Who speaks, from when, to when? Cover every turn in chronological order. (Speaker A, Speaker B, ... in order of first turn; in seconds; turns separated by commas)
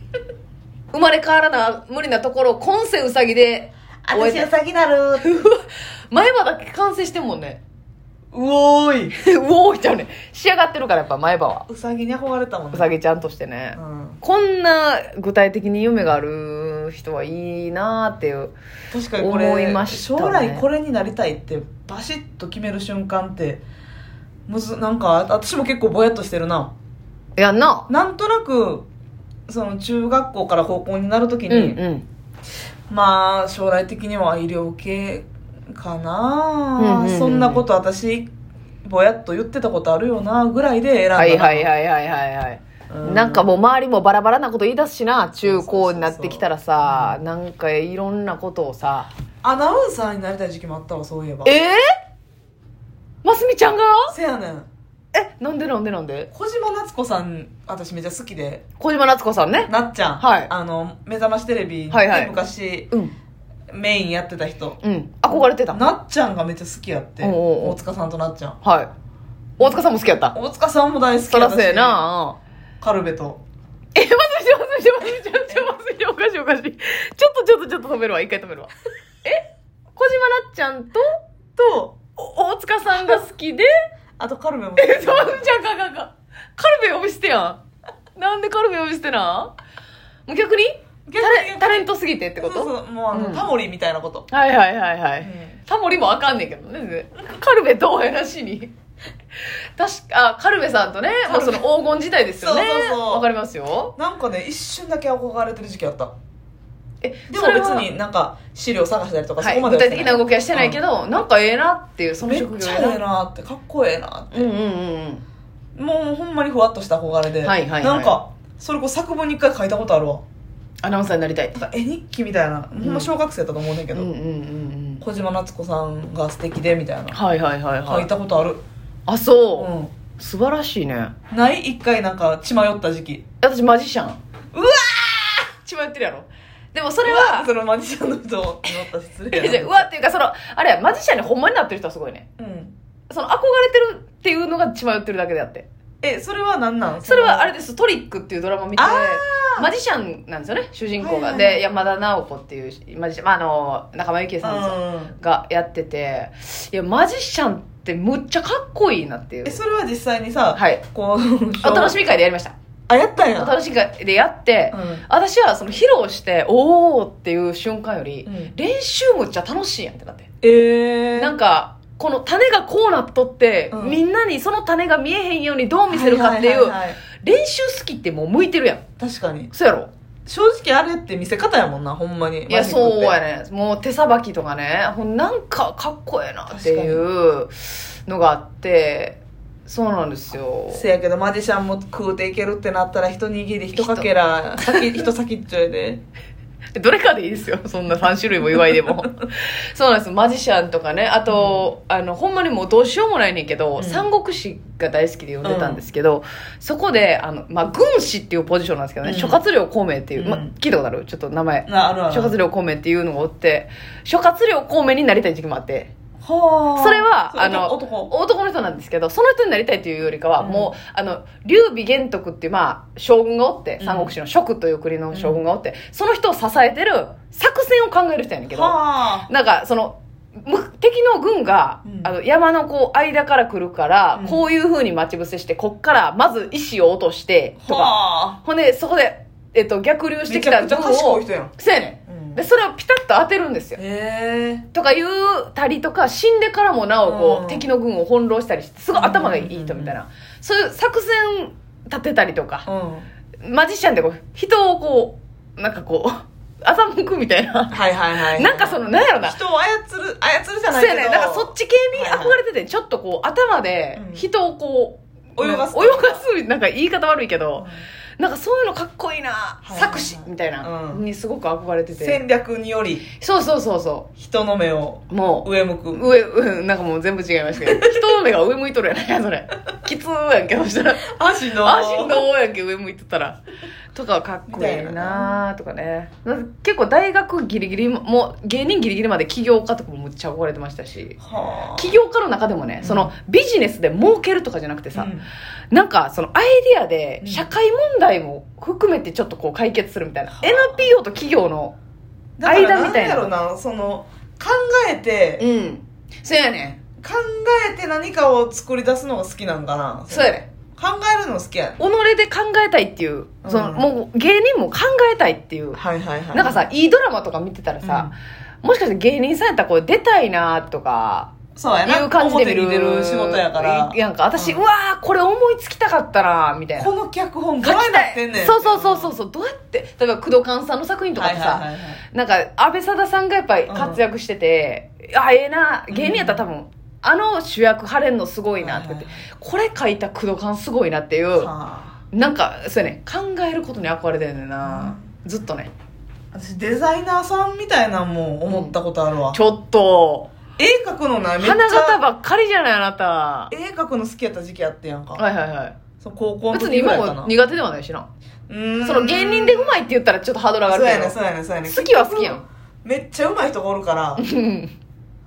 Speaker A: 0.9-4.5, Speaker B: 4.0-5.4, Speaker A: 5.2-7.6, Speaker B: 8.3-9.1, Speaker A: 9.1-11.7, Speaker B: 11.7-12.9, Speaker A: 12.7-18.5, Speaker B: 13.8-14.2, Speaker B: 18.9-23.6, Speaker A: 19.2-20.6, Speaker B: 24.5-26.7, Speaker A: 27.4-27.9, Speaker B: 27.9-28.9, Speaker B: 29.5-31.8, Speaker A: 31.5-32.0, Speaker B: 32.9-38.3, Speaker A: 36.8-37.6, Speaker B: 38.8-41.7, Speaker A: 41.1-49.1, Speaker B: 42.9-43.5, Speaker B: 45.4-47.2, Speaker B: 49.4-51.5, Speaker A: 51.4-51.8, Speaker A: 53.2-54.1, Speaker B: 54.1-54.7, Speaker A: 55.1-56.3, Speaker B: 56.3-58.6, Speaker A: 58.8-60.5, Speaker B: 59.6-62.9, Speaker A: 61.9-62.3, Speaker B: 63.7-64.8, Speaker A: 64.8-65.8, Speaker B: 65.3-68.6, Speaker A: 67.2-67.8, Speaker A: 68.6-68.9, Speaker A: 69.6-70.3, Speaker B: 70.3-72.0, Speaker A: 71.3-72.4, Speaker B: 72.8-73.4, Speaker A: 73.9-78.7, Speaker A: 79.2-81.2, Speaker B: 81.5-82.0, Speaker A: 82.2-83.7, Speaker B: 84.2-85.5, Speaker A: 84.8-87.6, Speaker A: 88.2-89.5, Speaker A: 90.2-93.5, Speaker B: 91.0-94.3, Speaker A: 94.3-98.7, Speaker B: 95.2-95.6, Speaker A: 99.8-103.9, Speaker B: 101.2-101.7, Speaker B: 102.4-103.3, Speaker B: 104.0-106.1, Speaker A: 107.0-107.9, Speaker B: 107.3-110.8, Speaker A: 109.4-113.0, Speaker B: 112.2-114.5, Speaker A: 114.3-115.2, Speaker B: 115.7-120.2, Speaker A: 117.4-118.2, Speaker A: 120.8-121.6, Speaker B: 121.5-124.1, Speaker A: 122.8-123.1, Speaker A: 123.9-125.0, Speaker B: 125.0-127.2, Speaker A: 127.1-128.1, Speaker B: 127.8-128.6, Speaker A: 129.1-131.1, Speaker B: 129.5-129.9, Speaker B: 131.3-133.2, Speaker A: 133.4-134.2, Speaker B: 134.5-135.5, Speaker A: 135.5-137.5, Speaker B: 137.0-139.9, Speaker A: 138.7-142.2, Speaker B: 142.4-142.7, Speaker A: 143.1-145.7, Speaker B: 146.0-147.5, Speaker A: 147.0-159.6, Speaker B: 148.8-149.7, Speaker B: 151.0-151.6, Speaker B: 154.4-155.2, Speaker B: 159.4-162.0, Speaker A: 160.5-160.8, Speaker A: 161.6-162.5, Speaker B: 162.9-163.6, Speaker A: 163.3-170.3, Speaker B: 164.7-165.0, Speaker B: 168.2-168.5, Speaker B: 170.4-171.3, Speaker A: 171.2-178.8, Speaker B: 173.7-174.0, Speaker B: 175.9-177.0, Speaker B: 179.0-179.5, Speaker A: 179.5-179.9, Speaker B: 180.2-183.2, Speaker A: 182.5-190.8, Speaker B: 186.5-187.0, Speaker B: 190.7-196.0, Speaker A: 193.7-194.8, Speaker A: 196.7-215.9, Speaker B: 201.3-201.7, Speaker B: 203.8-204.1, Speaker B: 205.4-205.8, Speaker B: 209.0-209.4, Speaker B: 210.2-210.5, Speaker B: 211.7-212.3, Speaker B: 216.2-218.1, Speaker A: 216.7-243.8, Speaker B: 220.4-220.7, Speaker B: 223.8-224.2, Speaker B: 225.1-225.4, Speaker B: 228.5-229.3, Speaker B: 231.8-232.1, Speaker B: 234.1-234.4, Speaker B: 237.6-238.4, Speaker B: 240.3-241.5, Speaker B: 242.1-242.4, Speaker B: 243.8-244.7, Speaker A: 244.7-252.7, Speaker B: 247.0-247.7, Speaker B: 248.9-250.0, Speaker B: 252.7-253.1, Speaker A: 253.4-259.4, Speaker B: 257.7-262.4, Speaker A: 260.7-267.7, Speaker B: 263.9-264.3, Speaker B: 265.4-266.2, Speaker B: 267.6-267.8, Speaker A: 268.2-272.2, Speaker B: 269.6-271.0, Speaker B: 271.9-273.1, Speaker A: 273.1-274.1, Speaker B: 274.2-276.1, Speaker A: 275.1-283.4, Speaker B: 277.6-278.0, Speaker B: 281.0-282.3, Speaker A: 283.9-291.2, Speaker B: 284.5-285.4, Speaker B: 291.2-291.9, Speaker A: 291.8-295.1, Speaker B: 292.8-293.1, Speaker B: 294.9-295.3, Speaker A: 295.7-301.7, Speaker B: 297.2-297.5, Speaker B: 300.3-300.9, Speaker B: 302.4-305.4, Speaker A: 302.4-303.3, Speaker A: 305.4-306.8, Speaker B: 307.0-311.8, Speaker A: 310.1-310.4, Speaker A: 311.8-315.8, Speaker B: 313.4-313.9, Speaker B: 315.8-316.7, Speaker A: 316.3-321.3, Speaker B: 317.8-318.1, Speaker B: 321.6-324.6, Speaker A: 321.8-326.9, Speaker B: 326.8-329.1, Speaker A: 327.6-341.5, Speaker B: 331.2-332.0, Speaker B: 333.7-334.0, Speaker B: 335.9-336.4, Speaker B: 338.6-339.2, Speaker B: 341.4-342.0, Speaker A: 342.1-345.7, Speaker B: 344.6-345.0, Speaker B: 346.3-349.4, Speaker A: 348.5-348.8, Speaker A: 349.3-350.3, Speaker B: 350.6-352.0, Speaker A: 351.4-353.5, Speaker B: 353.5-355.2, Speaker A: 355.2-355.7, Speaker B: 356.0-357.3, Speaker A: 356.5-358.1, Speaker B: 358.5-359.8, Speaker A: 358.8-362.4, Speaker B: 360.6-364.2, Speaker A: 364.2-364.7